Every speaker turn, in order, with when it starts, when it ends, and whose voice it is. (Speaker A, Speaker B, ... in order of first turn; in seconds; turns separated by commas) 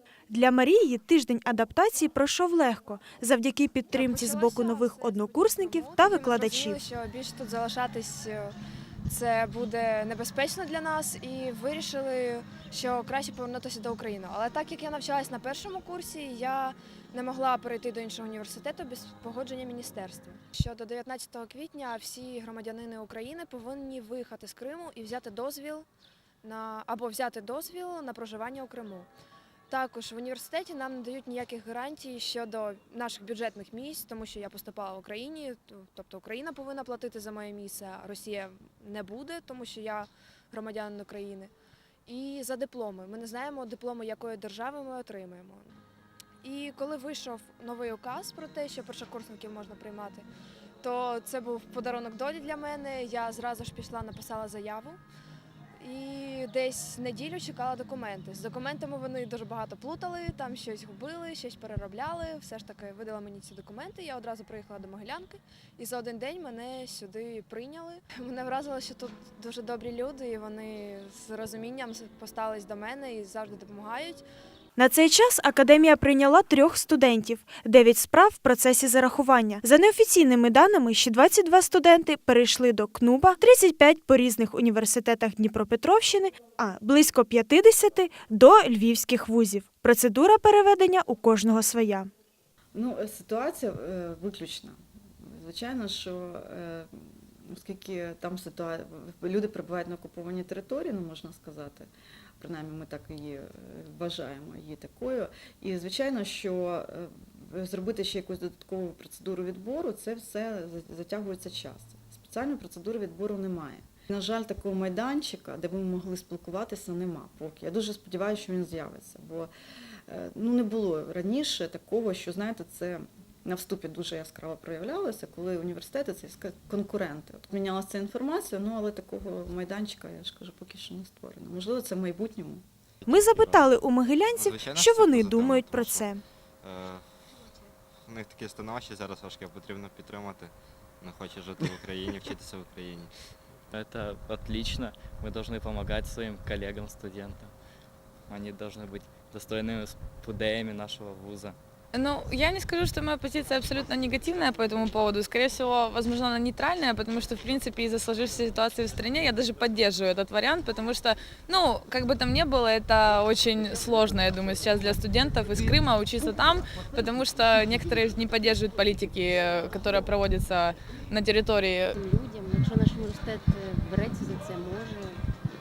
Speaker A: 0.3-6.8, Speaker B: 3.9-8.6, Speaker B: 9.1-25.9, Speaker B: 26.4-29.1, Speaker B: 29.7-41.5, Speaker B: 42.0-45.8, Speaker B: 46.4-50.2, Speaker B: 50.8-55.0, Speaker B: 55.8-74.2, Speaker A: 74.8-92.1, Speaker C: 92.7-119.5, Speaker C: 120.1-132.6, Speaker D: 133.0-133.7, Speaker A: 133.1-136.2, Speaker D: 134.3-137.5, Speaker D: 138.0-143.1, Speaker E: 143.7-147.5, Speaker E: 148.3-151.6, Speaker F: 151.9-172.0, Speaker G: 171.9-175.2